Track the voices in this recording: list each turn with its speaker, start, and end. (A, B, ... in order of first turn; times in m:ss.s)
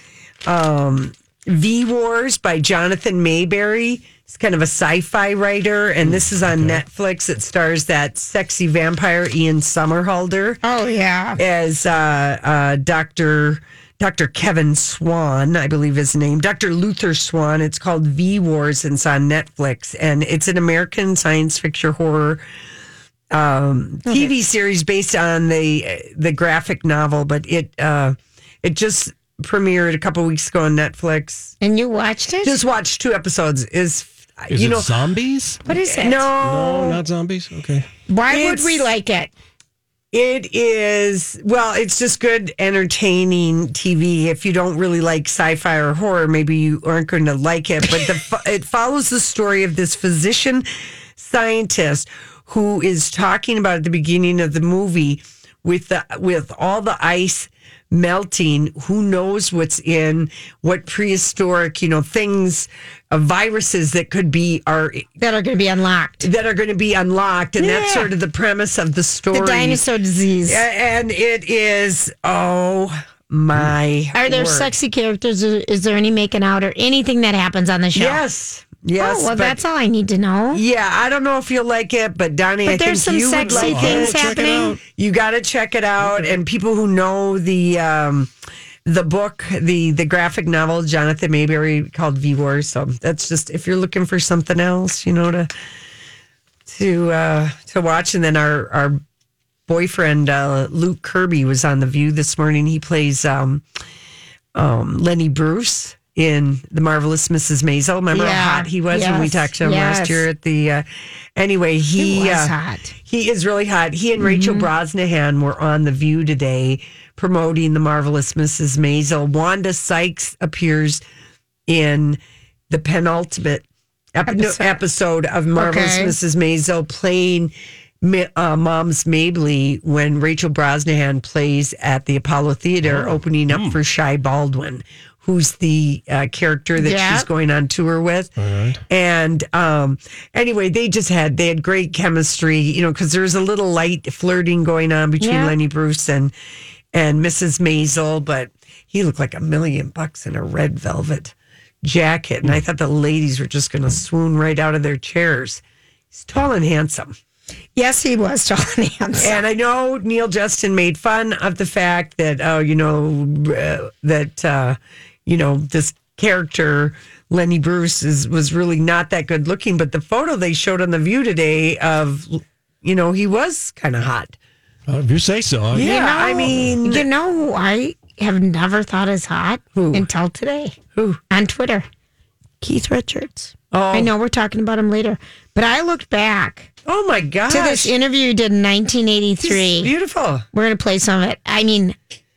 0:00.4-0:10.6 A
0:06.0-0:06.8 B
0:10.6-0:11.4 C
0:11.4-0:22.4 A
0:23.3-0:31.6 A
0:24.1-0:24.3 C
0:31.6-0:32.6 C
0:32.4-0:34.9 A
0:34.5-0:35.6 B
0:35.6-0:36.3 C
0:35.9-0:37.0 A
0:36.4-0:37.9 B
0:38.1-0:39.3 C
0:38.3-0:38.9 A
0:40.1-0:50.6 A
0:51.2-1:05.1 A
1:05.2-1:06.3 C
1:06.2-1:09.8 A
1:07.6-1:08.1 C
1:09.3-1:10.6 C
1:10.5-1:14.7 A
1:14.1-1:18.2 C
1:17.9-1:19.6 A
1:19.0-1:20.6 C
1:20.5-1:28.3 A
1:22.6-1:24.8 C
1:23.4-1:24.8 B
1:26.0-1:26.4 B
1:28.9-1:35.5 A
1:36.7-1:39.0 A
1:39.7-1:43.6 A
1:44.6-1:50.8 A
1:48.1-1:50.2 C
1:51.4-2:01.0 A
1:52.0-1:52.9 C
1:54.2-1:54.7 C
2:01.7-2:02.2 A
2:02.7-2:18.3 A
2:04.3-2:04.8 C
2:05.6-2:06.2 C
2:12.8-2:13.8 B
2:16.8-2:17.3 C
2:18.4-2:18.8 B
2:18.9-2:26.3 A
2:25.2-2:25.6 C
2:26.9-2:35.6 A
2:36.1-2:37.1 A
2:37.8-2:39.4 C
2:39.2-2:54.4 A
2:54.9-2:56.0 B
2:55.7-2:57.1 A
2:55.8-3:00.8 C
2:56.5-2:56.8 B
2:59.8-3:00.1 A
3:00.9-3:01.2 A
3:01.3-3:01.9 C
3:02.6-3:06.7 C
3:03.7-3:04.1 A
3:06.9-3:07.9 A
3:07.5-3:09.9 C
3:09.4-3:10.4 A
3:10.5-3:12.0 C